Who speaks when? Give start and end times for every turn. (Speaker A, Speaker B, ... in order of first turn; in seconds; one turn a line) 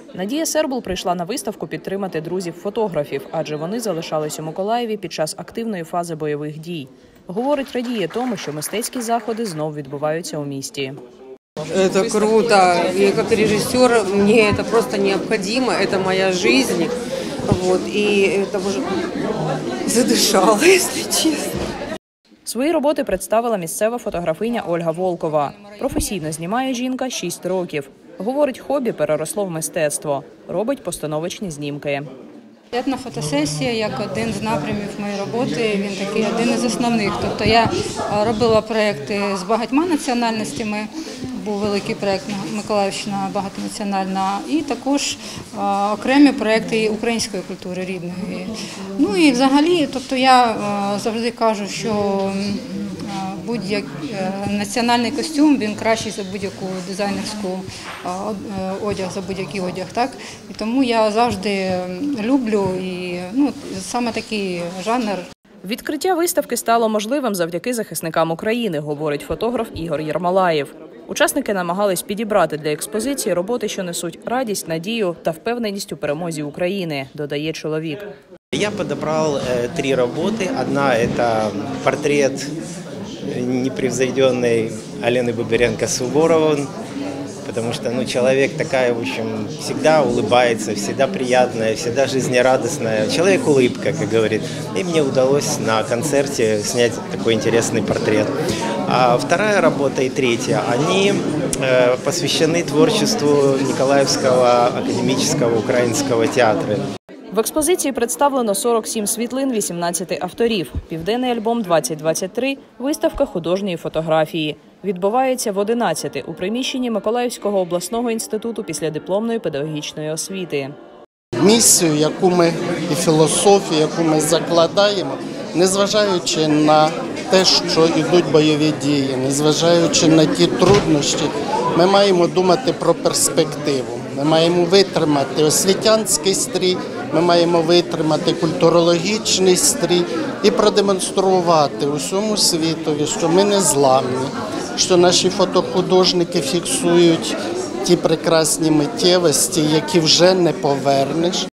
Speaker A: 0.1-11.0
Speaker B: 11.7-17.0
Speaker B: 17.5-18.9
Speaker B: 19.9-21.6
Speaker A: 22.5-32.1
Speaker C: 32.7-65.2
Speaker A: 65.6-78.0
Speaker D: 78.5-82.5
Speaker D: 83.3-86.7
Speaker D: 87.4-98.3
Speaker D: 98.9-106.8
Speaker A: 107.3-120.8
Speaker E: 121.4-151.4